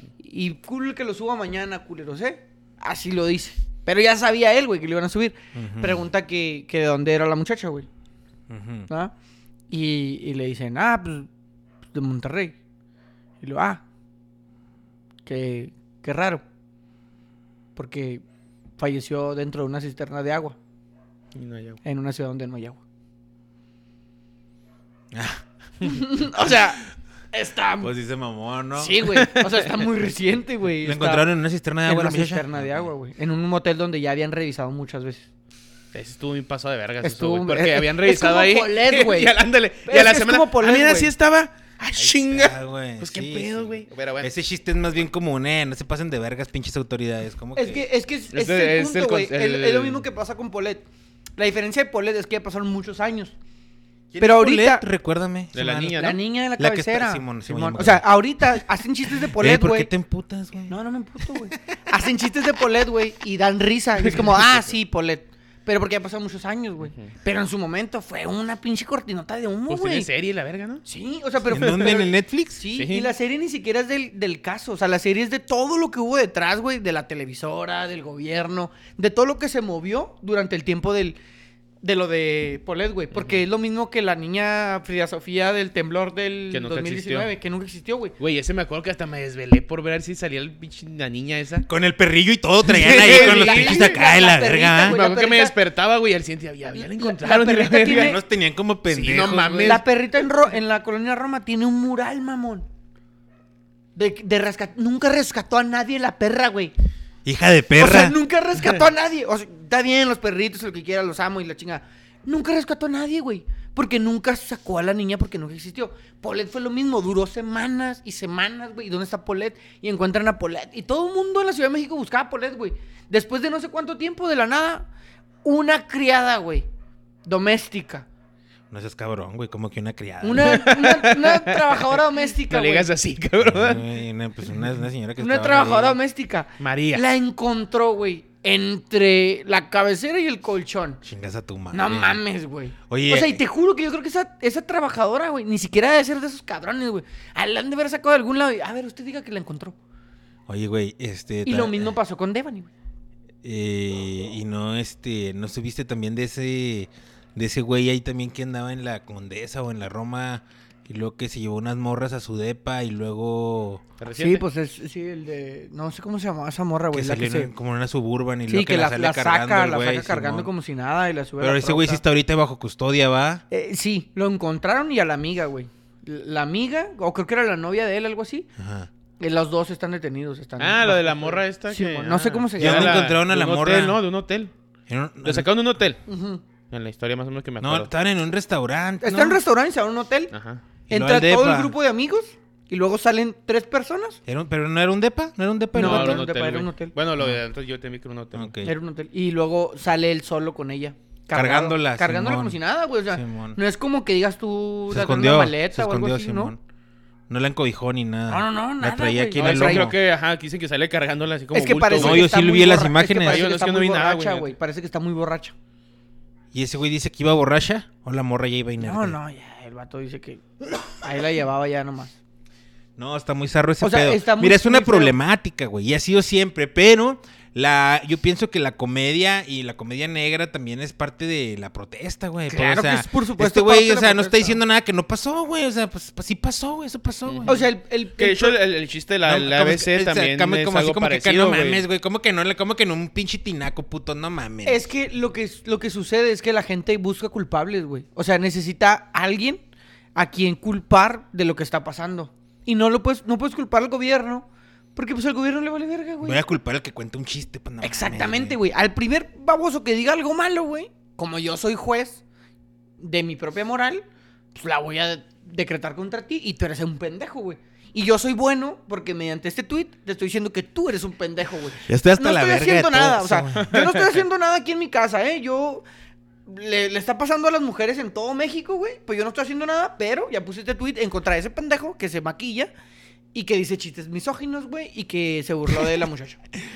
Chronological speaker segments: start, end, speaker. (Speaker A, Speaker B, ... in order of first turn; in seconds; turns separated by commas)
Speaker A: 0.2-7.9, Speaker B: 5.5-6.0, Speaker B: 8.5-8.9, Speaker A: 9.7-11.3, Speaker A: 11.9-12.6, Speaker A: 13.4-13.8, Speaker A: 15.3-16.4, Speaker A: 17.8-18.2, Speaker A: 18.8-20.6, Speaker C: 21.4-21.8, Speaker A: 21.8-22.8, Speaker B: 25.1-25.4, Speaker A: 25.8-27.9, Speaker B: 27.8-29.1, Speaker A: 28.8-31.3, Speaker C: 29.1-29.7, Speaker B: 30.8-32.9, Speaker A: 31.9-35.3, Speaker C: 35.9-44.3, Speaker A: 37.0-41.1, Speaker B: 42.0-47.9, Speaker A: 47.5-50.8, Speaker C: 48.3-50.0, Speaker A: 51.4-53.4, Speaker B: 54.1-58.6, Speaker A: 54.2-54.9, Speaker C: 55.5-56.2, Speaker A: 56.0-59.9, Speaker B: 59.2-60.8, Speaker A: 60.7-70.1, Speaker B: 61.3-61.8, Speaker C: 64.0-64.7, Speaker C: 69.7-70.8, Speaker A: 70.9-81.2, Speaker B: 71.5-72.6, Speaker C: 72.7-73.1, Speaker A: 81.8-88.2, Speaker C: 86.5-87.3, Speaker C: 88.2-91.7, Speaker B: 91.7-95.0, Speaker C: 92.7-94.0, Speaker A: 92.7-95.5, Speaker C: 94.8-98.2, Speaker A: 96.7-98.2, Speaker B: 97.9-99.8, Speaker C: 98.9-99.8, Speaker A: 99.6-102.7, Speaker A: 104.0-106.7, Speaker B: 107.2-108.2, Speaker A: 107.8-124.9, Speaker A: 125.4-126.7, Speaker A: 127.3-128.1, Speaker B: 128.7-130.6, Speaker A: 130.2-132.9, Speaker C: 130.4-133.9, Speaker B: 133.4-136.0, Speaker A: 135.2-141.0, Speaker C: 136.6-137.0, Speaker B: 141.0-142.2, Speaker A: 141.7-149.8, Speaker B: 142.9-143.4, Speaker B: 150.5-151.9, Speaker A: 151.5-152.7, Speaker B: 153.4-163.8, Speaker C: 164.0-164.4, Speaker A: 164.1-167.5, Speaker B: 166.9-170.5, Speaker A: 168.5-172.0, Speaker B: 171.4-173.4, Speaker A: 173.5-178.5, Speaker B: 178.6-178.9, Speaker A: 179.2-183.1, Speaker C: 180.6-184.5, Speaker B: 182.6-184.0, Speaker B: 184.9-185.5, Speaker C: 185.2-186.0, Speaker A: 186.1-186.4, Speaker C: 186.7-187.9, Speaker B: 187.6-189.4, Speaker A: 189.0-190.3, Speaker C: 190.3-190.6, Speaker A: 190.9-194.2, Speaker B: 190.9-191.8, Speaker B: 194.3-196.3, Speaker A: 195.7-196.9, Speaker C: 195.8-198.5, Speaker B: 198.3-198.7, Speaker A: 198.6-206.5, Speaker B: 201.3-202.6, Speaker B: 203.1-203.6, Speaker B: 204.9-206.6, Speaker B: 207.3-209.9, Speaker A: 208.3-209.9, Speaker C: 209.4-212.3, Speaker A: 211.5-215.6, Speaker B: 211.9-213.5, Speaker C: 213.2-214.5, Speaker B: 216.5-219.2, Speaker A: 218.8-222.2, Speaker B: 223.0-237.6, Speaker A: 223.8-225.2, Speaker A: 232.5-234.6, Speaker C: 237.3-241.8, Speaker A: 237.5-238.6, Speaker B: 239.3-244.8, Speaker A: 244.7-249.6, Speaker A: 250.2-256.4, Speaker B: 256.2-258.6, Speaker A: 257.8-262.2, Speaker A: 263.0-264.0, Speaker A: 264.6-275.8, Speaker B: 271.9-273.7, Speaker C: 273.6-274.1, Speaker A: 276.5-282.7, Speaker A: 283.3-286.4